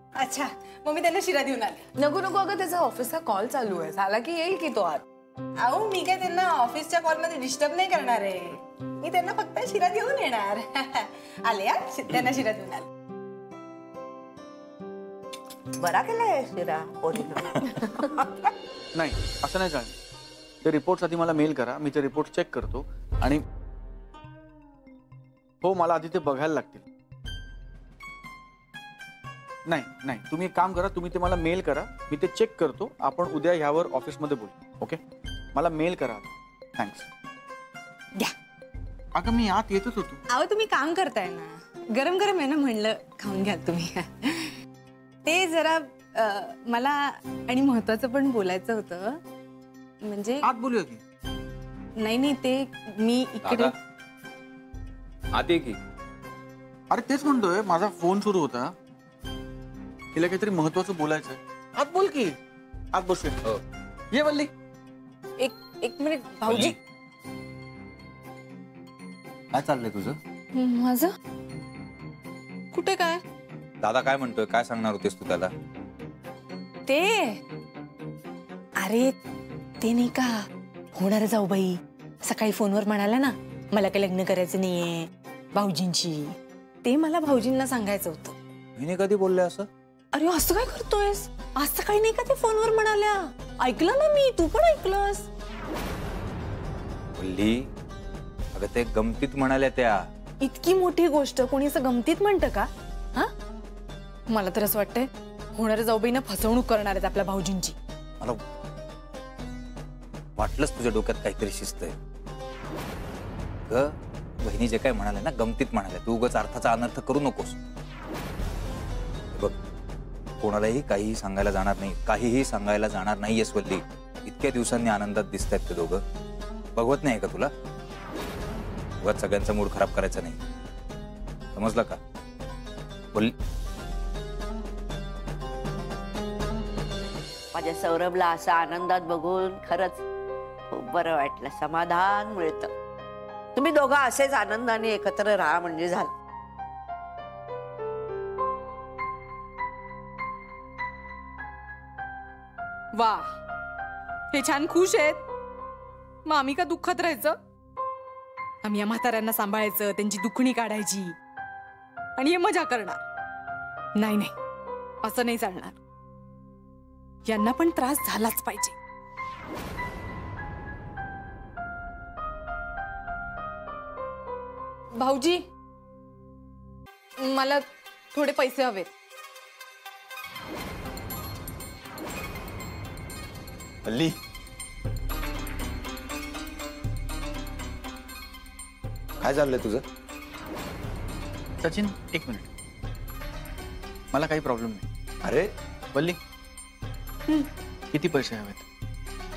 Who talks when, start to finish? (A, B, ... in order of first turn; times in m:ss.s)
0:00.2-0:01.9 A
0:02.0-0:05.0 B
0:05.6-0:12.9 A
0:15.8-0:18.5 C
0:19.0-0:20.0 D
0:20.6-0:23.4 D
0:25.6-0:26.8 D
0:29.7-0:35.0 D
0:35.5-0:37.1 D
0:39.1-0:40.2 D
0:40.3-0:44.5 A
0:45.2-0:49.2 A
0:50.0-0:50.5 A
0:50.4-0:51.0 D
0:52.0-0:53.7 A
0:53.4-0:53.7 E
0:55.4-0:55.8 E
0:56.9-0:58.8 D
1:00.2-1:02.4 D
1:02.9-1:03.4 D
1:04.1-1:04.5 D
1:05.4-1:06.8 A
1:06.5-1:06.8 E
1:09.5-1:10.2 E
1:10.6-1:11.1 A
1:12.7-1:13.2 A
1:13.8-1:15.5 E
1:16.9-1:17.4 A
1:18.8-1:19.1 A
1:19.8-1:20.4 A
1:20.9-1:28.4 A
1:28.8-1:29.7 E
1:30.1-1:35.3 A
1:37.2-1:37.6 E
1:38.5-1:40.0 E
1:40.4-1:43.3 A
1:44.3-1:47.8 A
1:50.4-1:52.0 E
1:53.7-1:57.6 E
2:00.4-2:06.0 E
2:06.8-2:07.5 E
2:09.0-2:10.4 E
2:11.6-2:12.0 E
2:17.5-2:20.0 C
2:20.7-2:22.7 C
2:23.6-2:26.1 C
2:33.0-2:33.2 A
2:34.3-2:35.2 A
2:36.3-2:37.4 A
2:38.6-2:41.2 A
2:42.2-2:43.0 A
2:44.0-2:44.3 A
2:45.0-2:45.8 A
2:47.3-2:48.8 A
2:55.0-2:55.4 A
2:57.2-2:58.9 A
3:03.8-3:04.1 E
3:09.2-3:09.8 E
3:11.6-3:12.5 D
3:14.1-3:14.8 D
3:15.2-3:15.5 E
3:15.9-3:16.2 D
3:17.9-3:18.7 D